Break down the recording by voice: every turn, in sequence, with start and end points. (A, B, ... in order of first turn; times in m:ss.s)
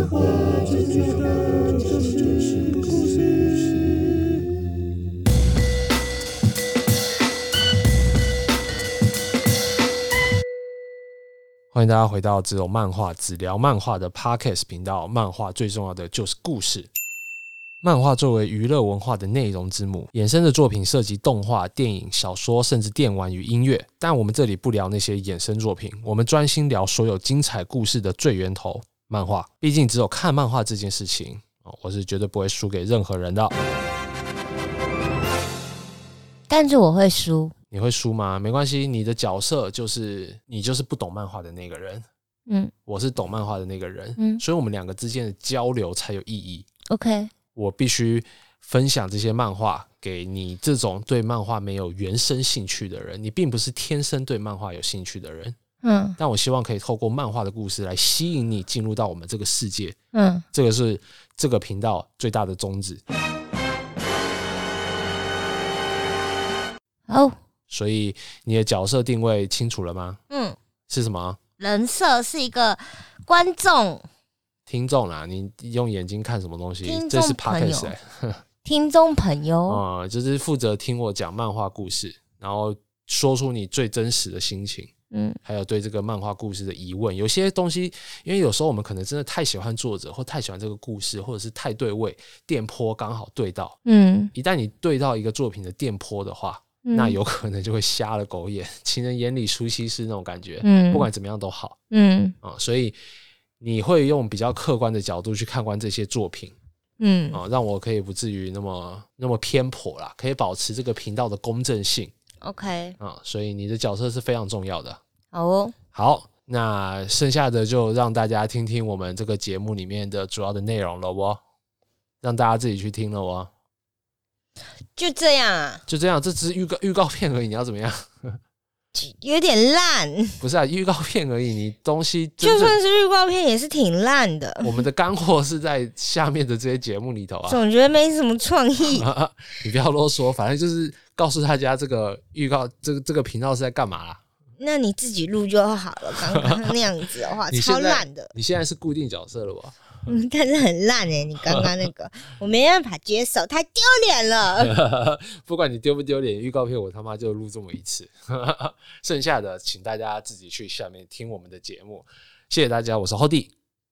0:00.4-0:03.4 A
0:11.7-0:16.9 A
0:17.8-0:33.6 A
0:36.5-0:37.6 B
0:37.7-0:42.0 A
0:42.8-0:46.7 A
0:44.2-0:44.4 B
0:46.9-0:47.3 B
0:47.5-0:55.6 A
0:55.8-0:56.2 B
0:56.2-1:00.0 A
1:00.1-1:00.5 B
1:00.5-1:03.0 A
1:07.1-1:07.4 B
1:07.7-1:10.2 A
1:10.3-1:10.6 B
1:10.9-1:11.4 A
1:11.6-1:14.0 B
1:14.7-1:18.4 A
1:16.8-1:17.9 B
1:18.6-1:19.8 B
1:19.7-1:24.9 A
1:25.1-1:25.4 B
1:25.4-1:33.8 A
1:33.9-1:34.3 B
1:34.3-1:41.8 A
1:36.8-1:37.2 B
1:40.6-1:41.1 B
1:41.9-1:42.3 B
1:42.4-1:43.0 A
1:43.6-1:46.6 A
1:47.0-1:47.4 B
1:47.3-1:52.1 A
1:52.4-1:53.0 B
1:53.0-1:55.0 A
1:55.3-1:55.8 B
1:55.9-2:01.4 A
2:02.2-2:03.5 A
2:05.0-2:05.8 B
2:05.9-2:08.4 A
2:08.9-2:10.4 B
2:10.4-2:12.8 A
2:12.4-2:14.8 B
2:14.6-2:17.6 A
2:17.5-2:19.1 B
2:18.8-2:24.2 A
2:24.6-2:28.3 B
2:26.2-2:26.8 A
2:27.5-2:29.9 A
2:30.1-2:34.7 B
2:34.6-2:43.5 A